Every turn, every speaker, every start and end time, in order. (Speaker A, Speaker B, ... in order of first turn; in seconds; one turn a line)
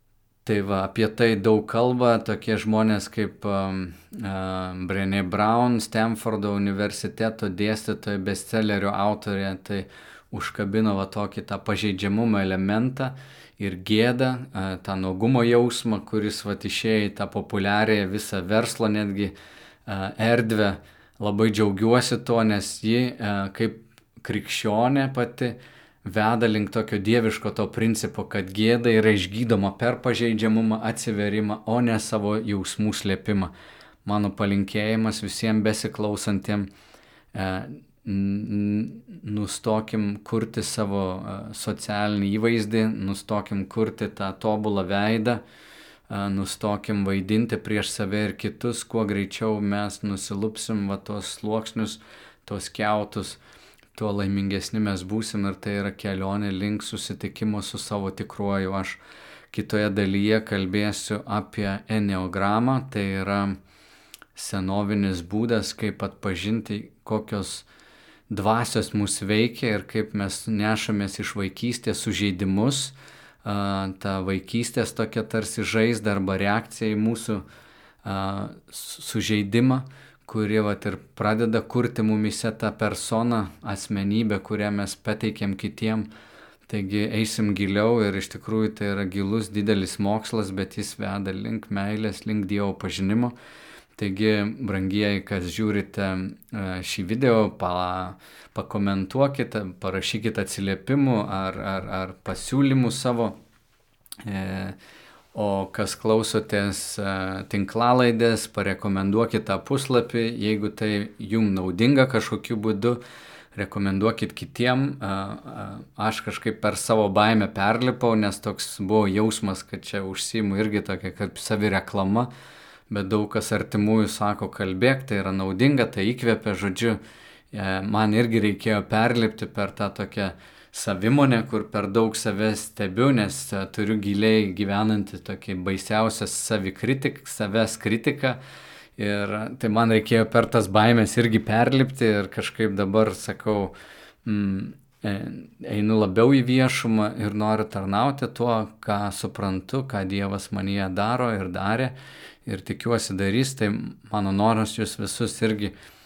Speaker A: 0.5-19.3
Speaker A: 19.9-33.5
Speaker A: 34.0-36.7
Speaker A: 37.3-45.4
Speaker A: 46.1-53.4
Speaker A: 53.9-63.6
Speaker A: 64.3-67.7
Speaker A: 68.3-77.5
Speaker A: 78.0-86.1
Speaker A: 86.7-93.3
Speaker A: 94.0-103.4
Speaker A: 104.2-104.8
Speaker A: 105.3-113.0
Speaker A: 113.5-122.3
Speaker A: 122.9-127.0
Speaker A: 127.5-138.4
Speaker A: 139.0-143.7
Speaker A: 144.2-155.7